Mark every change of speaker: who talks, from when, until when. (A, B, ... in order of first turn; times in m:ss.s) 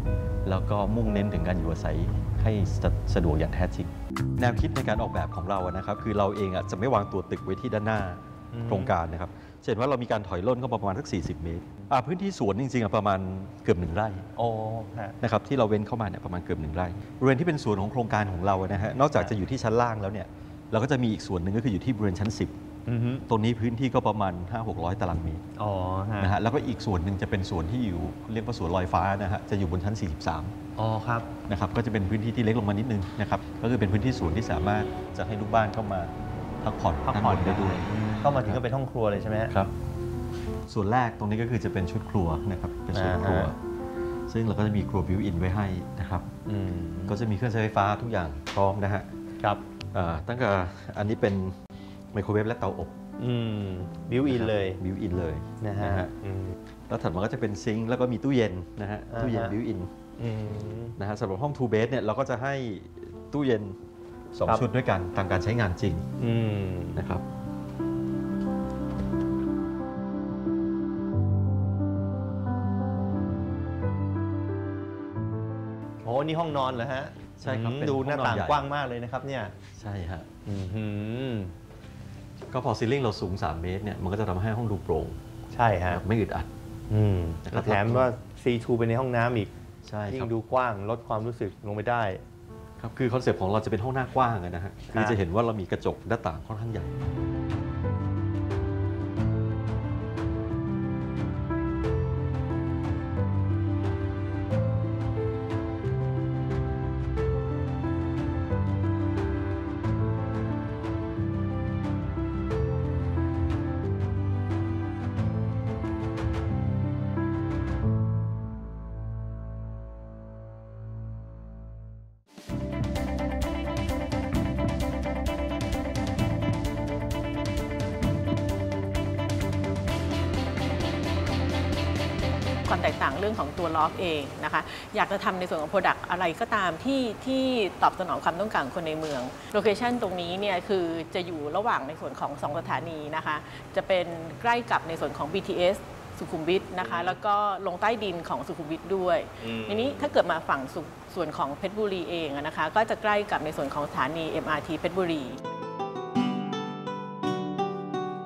0:00.4-0:14.3 A
0:08.5-0:08.9 B
0:14.4-0:15.2 B
0:15.2-0:22.6 A
0:22.9-0:23.2 B
0:23.3-0:25.4 A
0:25.6-0:26.3 B
0:26.2-0:30.5 A
0:30.8-0:31.3 B
0:31.5-0:38.6 A
0:37.1-0:39.5 B
0:40.7-0:43.6 A
0:42.9-0:43.5 B
0:44.3-0:46.3 A
0:46.5-0:47.2 B
0:47.1-0:49.1 A
0:49.9-0:51.6 A
0:52.1-0:53.0 A
0:53.2-0:54.8 B
0:54.3-0:56.1 A
0:55.6-0:56.5 B
0:56.9-0:59.9 A
0:59.1-0:59.5 B
1:00.2-1:00.9 B
1:01.0-1:03.8 A
1:04.3-1:06.1 A
1:06.2-1:07.0 B
1:06.9-1:07.2 A
1:16.0-1:19.6 B
1:17.4-1:18.7 A
1:19.7-1:20.3 A
1:20.5-1:21.5 B
1:22.5-1:25.2 A
1:25.5-1:26.0 B
1:25.9-1:26.5 A
1:26.9-1:29.5 B
1:27.4-1:28.1 A
1:29.8-1:30.3 A
1:30.1-1:32.2 B
1:32.8-1:36.9 A
2:12.6-2:35.4 C
2:26.8-2:27.2 B
2:29.4-2:30.1 B